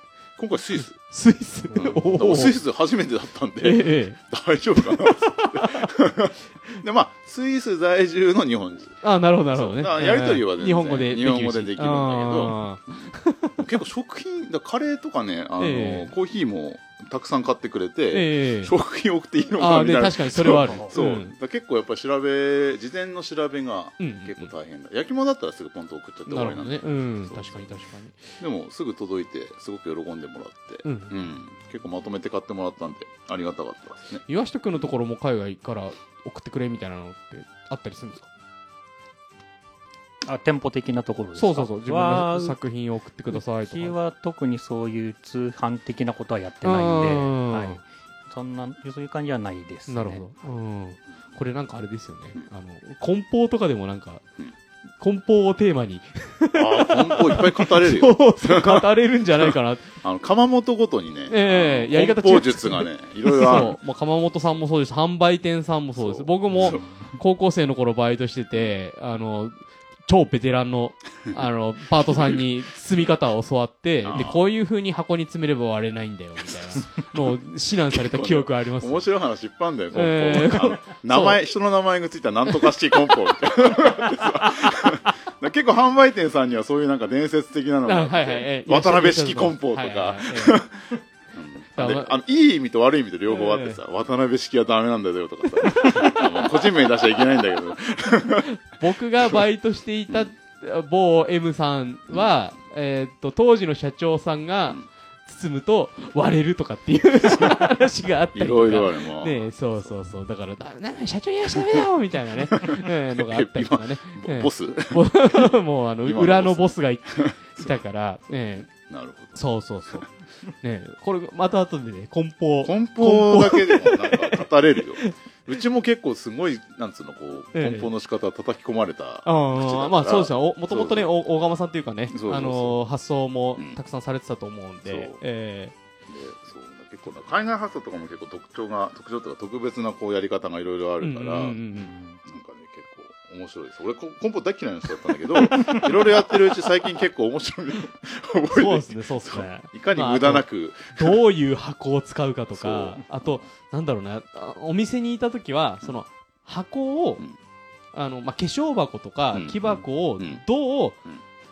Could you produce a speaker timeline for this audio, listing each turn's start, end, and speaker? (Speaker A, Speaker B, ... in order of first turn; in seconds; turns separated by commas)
Speaker A: 0.4-1.0, Speaker B: 0.9-2.6, Speaker A: 1.7-12.6, Speaker B: 3.6-4.2, Speaker B: 4.8-5.9, Speaker B: 9.0-13.6, Speaker A: 13.6-27.8, Speaker B: 15.6-16.1, Speaker B: 18.1-18.7, Speaker B: 19.6-21.4, Speaker C: 20.6-20.9, Speaker B: 24.0-24.5, Speaker B: 26.3-28.4, Speaker A: 28.4-34.2, Speaker B: 30.8-31.1, Speaker B: 34.2-38.3, Speaker C: 40.2-42.6, Speaker B: 41.3-43.9, Speaker C: 43.3-50.2, Speaker B: 46.6-47.8, Speaker B: 49.9-54.2, Speaker B: 55.0-60.0, Speaker A: 56.5-63.8, Speaker B: 61.3-79.1, Speaker A: 66.0-66.8, Speaker A: 72.1-72.4, Speaker A: 74.0-74.4, Speaker A: 77.9-98.5, Speaker B: 79.9-81.4, Speaker B: 84.5-84.8, Speaker B: 87.8-90.7, Speaker B: 91.8-92.2, Speaker B: 93.3-93.8, Speaker B: 95.6-96.7, Speaker B: 98.4-118.7, Speaker A: 107.3-107.6, Speaker A: 108.3-109.9, Speaker A: 111.5-111.9, Speaker A: 112.4-117.8, Speaker A: 118.7-119.4, Speaker B: 119.3-124.5, Speaker A: 122.6-131.1, Speaker B: 127.5-127.9, Speaker B: 129.2-135.8, Speaker A: 132.1-132.8, Speaker A: 134.8-135.2, Speaker A: 136.1-141.6, Speaker B: 141.0-141.9, Speaker C: 141.8-142.2, Speaker A: 142.2-151.2, Speaker B: 148.5-157.2, Speaker A: 152.5-153.4, Speaker B: 157.9-161.0, Speaker A: 159.3-160.4